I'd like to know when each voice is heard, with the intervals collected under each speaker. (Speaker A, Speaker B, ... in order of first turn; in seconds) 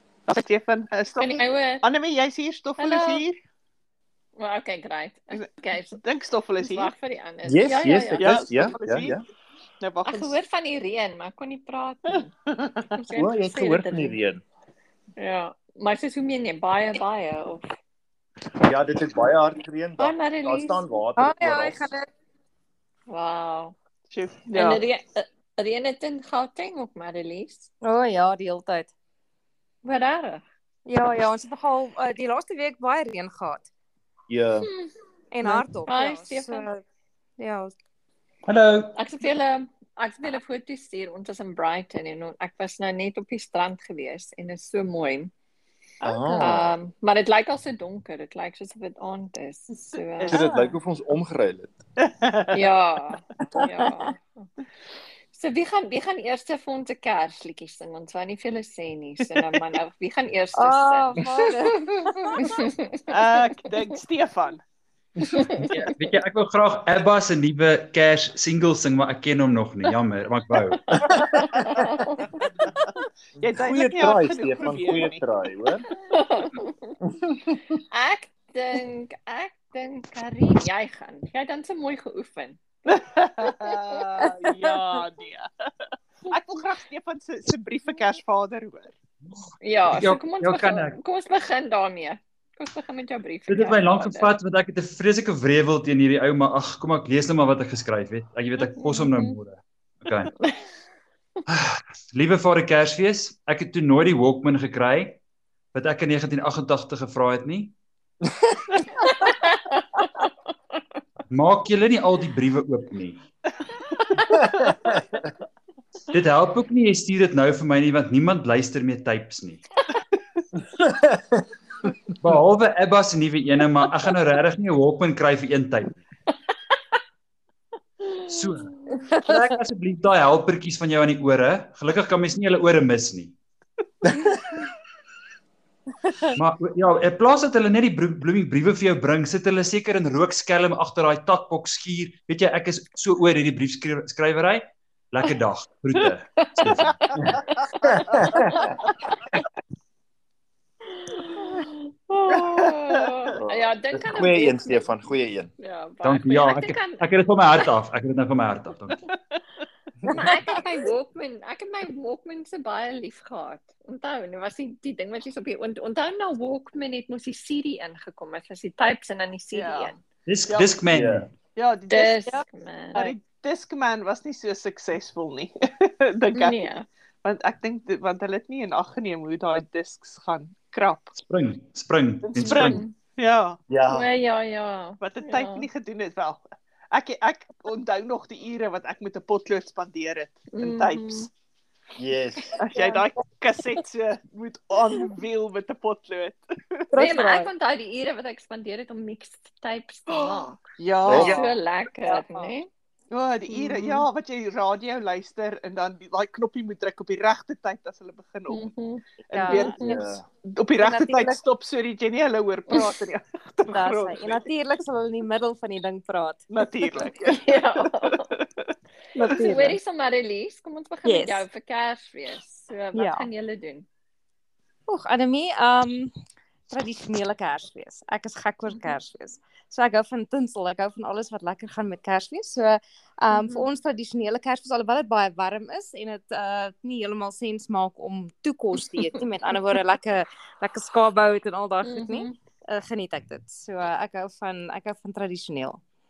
Speaker A: 0.3-3.4, 5.3-6.9, 8.2-9.2, 9.8-10.4, 12.1-13.0, 24.1-24.8, 46.1-46.4, 50.2-50.7, 52.0-52.7, 59.2-59.6, 63.1-64.6, 73.4-75.2, 82.9-85.5, 86.3-88.9, 152.3-153.1, 169.5-169.9, 170.5-170.8, 171.5-172.3, 172.9-181.2, 182.2-183.6, 185.0-191.3, 192.6-196.8, 200.8-201.5, 203.1-208.7, 209.3-214.4, 216.5-218.7
Speaker B: 1.2-1.9, 2.8-3.2, 4.4-6.0, 6.6-8.3, 10.1-12.3, 12.9-14.2, 15.2-17.7, 20.0-20.8, 23.1-23.7, 24.5-27.7, 29.8-30.4, 34.6-34.9, 35.4-36.6, 38.9-45.3, 46.4-50.5, 52.5-54.5, 55.3-61.4, 62.4-63.0, 65.3-65.9, 71.0-72.4, 76.0-77.0, 77.9-82.6, 83.4-84.3, 89.6-94.3, 98.8-99.3, 109.1-110.3, 114.0-114.3, 146.4-148.9, 151.0-154.9, 155.6-157.1, 160.0-170.0, 171.9-173.1, 176.3-176.8, 182.6-182.9, 183.9-185.7, 190.5-191.3, 197.0-202.7, 203.5-204.0, 208.5-210.1, 212.7-213.0, 217.2-218.2, 219.3-223.9, 233.4-233.7, 241.8-242.3
Speaker C: 7.4-9.2, 13.1-14.4, 18.6-21.9, 34.3-34.7, 46.0-46.7, 50.3-51.7, 73.4-75.9, 77.2-77.6, 114.4-115.0, 147.2-148.7, 153.3-155.5, 170.9-171.3, 183.7-184.1, 191.9-192.6, 201.0-201.4, 209.8-210.2
Speaker D: 21.2-22.1, 27.8-28.9, 30.9-33.7, 35.3-36.8, 37.4-37.7, 60.5-62.6, 84.2-84.7, 196.9-197.5, 202.0-202.5, 209.3-209.7, 210.8-211.4, 213.7-216.5, 219.1-219.8, 221.0-221.4, 222.9-223.3, 224.9-226.1, 226.7-245.8
Speaker E: 38.5-39.0, 65.7-71.0, 89.2-91.0, 93.5-100.3, 101.5-105.2, 105.7-107.8, 111.3-113.2, 116.1-119.8, 122.2-126.0, 128.3-133.3, 136.3-147.4, 156.0-159.0, 170.2-171.3, 181.2-182.8